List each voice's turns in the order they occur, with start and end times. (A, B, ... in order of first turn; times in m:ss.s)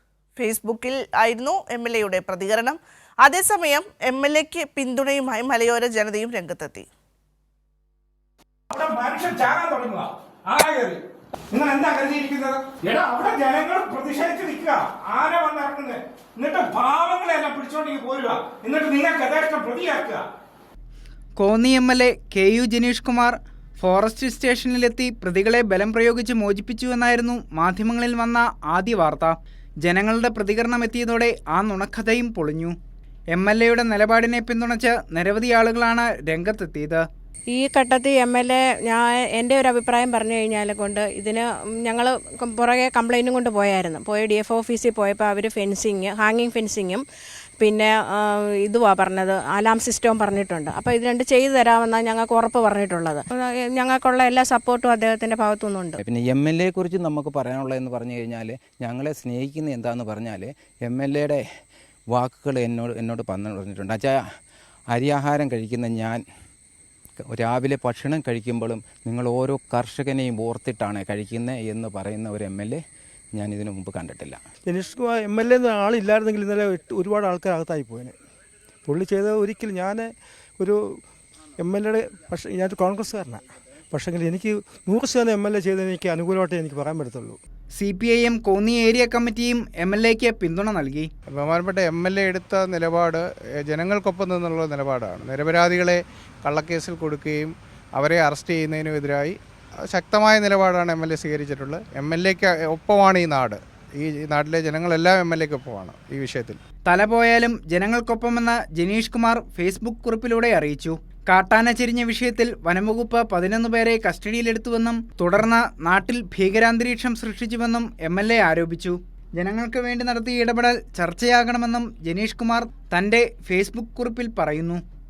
0:00.4-0:06.8 A
0:08.7-0:11.0 B
0:11.5-0:20.2 B
0:21.4-0:32.8 C
0:33.3-0:37.0 C
0:37.5-0:47.0 D
0:47.6-0:56.0 D
0:56.0-1:01.4 E
1:02.1-1:04.2 E
1:04.9-1:06.2 E
1:07.2-1:12.8 E
1:13.4-1:14.4 E
1:14.7-1:18.2 F
1:18.8-1:21.0 F
1:21.6-1:27.4 F
1:27.8-1:31.1 C
1:31.3-1:39.4 G
1:39.9-1:46.6 G
1:46.8-2:04.8 C